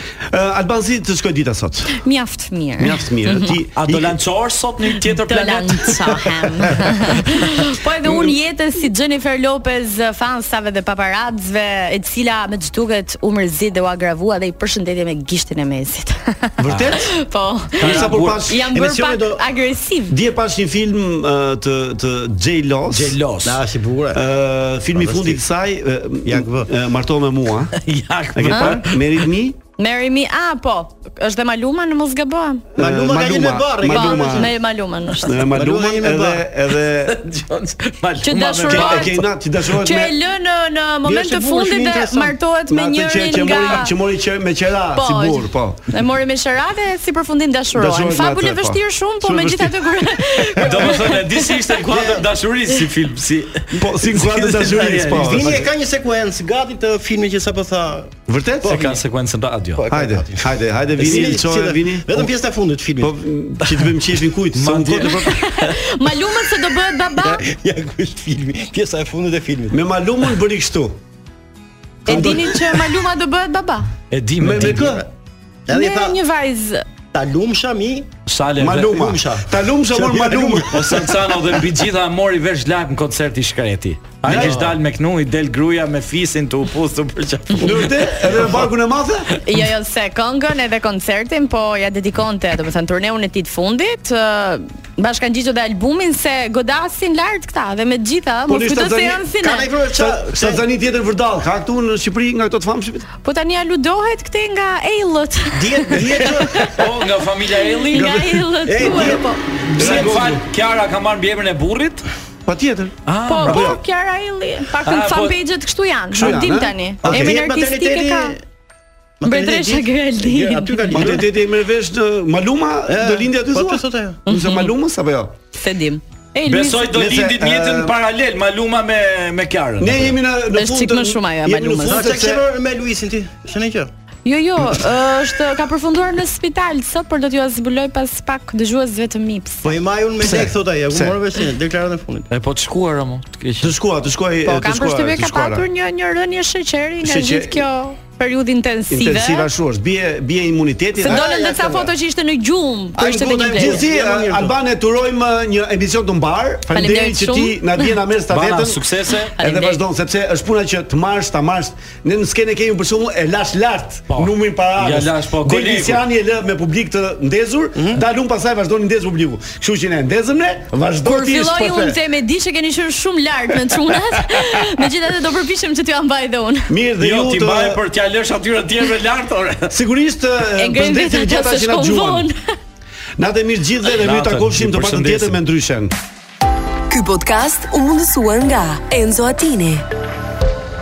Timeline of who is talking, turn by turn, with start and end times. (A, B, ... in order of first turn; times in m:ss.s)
0:00.3-0:02.0 A
0:01.9-0:03.6 B
0:02.8-0:04.2 A
0:03.8-0:06.1 C
0:04.9-0:20.2 B
0:06.7-0:07.2 C
0:08.0-0:08.4 A
0:16.6-0:17.1 A
0:16.6-0:17.0 C
0:17.8-0:18.4 C
0:17.8-0:18.7 A
0:18.7-0:19.5 D
0:20.1-0:23.2 A
0:22.9-0:23.6 C
0:23.4-0:24.2 D
0:24.1-0:27.7 A
0:24.9-0:25.4 D
0:26.3-0:26.7 D
0:27.8-0:29.2 C
0:28.4-0:29.6 A
0:28.5-0:28.8 B
0:29.8-0:32.7 B
0:32.8-0:34.6 A
0:32.8-0:34.5 D
0:33.9-0:35.3 B
0:35.2-0:37.2 A
0:35.3-0:36.5 D
0:37.0-0:39.3 C
0:38.2-0:44.0 B
0:38.7-0:40.2 A
0:41.1-0:42.3 D
0:42.7-0:45.8 A
0:44.9-0:51.7 B
0:47.7-0:50.2 A
0:50.6-0:55.6 C
0:51.9-0:52.2 D
0:53.7-0:55.7 A
0:55.1-0:58.1 D
0:58.3-0:59.0 A
0:58.6-0:59.8 C
0:59.8-1:03.2 D
0:59.9-1:02.3 A
1:03.0-1:05.4 A
1:04.5-1:05.3 C
1:05.1-1:07.4 B
1:07.2-1:09.9 D
1:09.7-1:11.0 A
1:12.1-1:12.6 A
1:12.1-1:13.9 B
1:14.1-1:14.9 C
1:14.4-1:15.1 A
1:14.6-1:15.1 D
1:15.7-1:16.2 D
1:15.7-1:16.8 B
1:17.1-1:18.1 D
1:18.3-1:19.0 C
1:18.6-1:21.0 A
1:18.9-1:20.9 D
1:20.7-1:28.7 C
1:24.2-1:24.7 A
1:24.3-1:24.7 D
1:27.6-1:29.3 A
1:29.4-1:39.7 B
1:38.5-1:39.3 A
1:39.4-1:40.6 D
1:39.9-1:43.1 A
1:43.2-1:46.8 B
1:45.6-1:46.7 D
1:46.7-1:48.2 C
1:47.7-1:49.4 B
1:47.9-1:49.2 A
1:48.7-1:50.2 D
1:49.7-1:52.0 C
1:49.8-1:50.4 A
1:52.5-1:53.8 A
1:53.1-1:53.8 C
1:53.3-1:58.4 B
1:54.8-1:55.4 C
1:56.1-1:57.4 A
1:57.0-1:58.4 D
1:59.2-2:01.3 D
1:59.2-2:01.2 B
2:00.9-2:05.4 A
2:02.9-2:04.2 D
2:04.3-2:04.7 B
2:05.6-2:06.9 B
2:06.4-2:10.2 C
2:06.9-2:08.0 A
2:09.8-2:12.4 A
2:10.5-2:12.0 B
2:11.8-2:13.9 D
2:14.2-2:19.6 B
2:19.6-2:22.3 D
2:20.2-2:21.2 A
2:22.3-2:23.7 C
2:23.6-2:25.7 A
2:24.4-2:29.5 B
2:27.0-2:27.6 A
2:28.9-2:31.4 A
2:31.0-2:33.9 B
2:31.0-2:31.9 D
2:33.0-2:34.6 D
2:33.5-2:38.8 A
2:36.7-2:38.0 B
2:38.3-2:39.3 C
2:39.4-2:39.8 B
2:39.4-2:52.0 A
2:44.1-2:46.0 C
2:51.0-2:56.8 B
2:53.7-2:54.8 A
2:56.7-2:57.8 A
2:57.0-2:59.7 C
2:59.7-3:02.3 A
3:00.5-3:02.4 B
3:03.2-3:05.9 A
3:04.0-3:05.4 C
3:06.9-3:09.9 E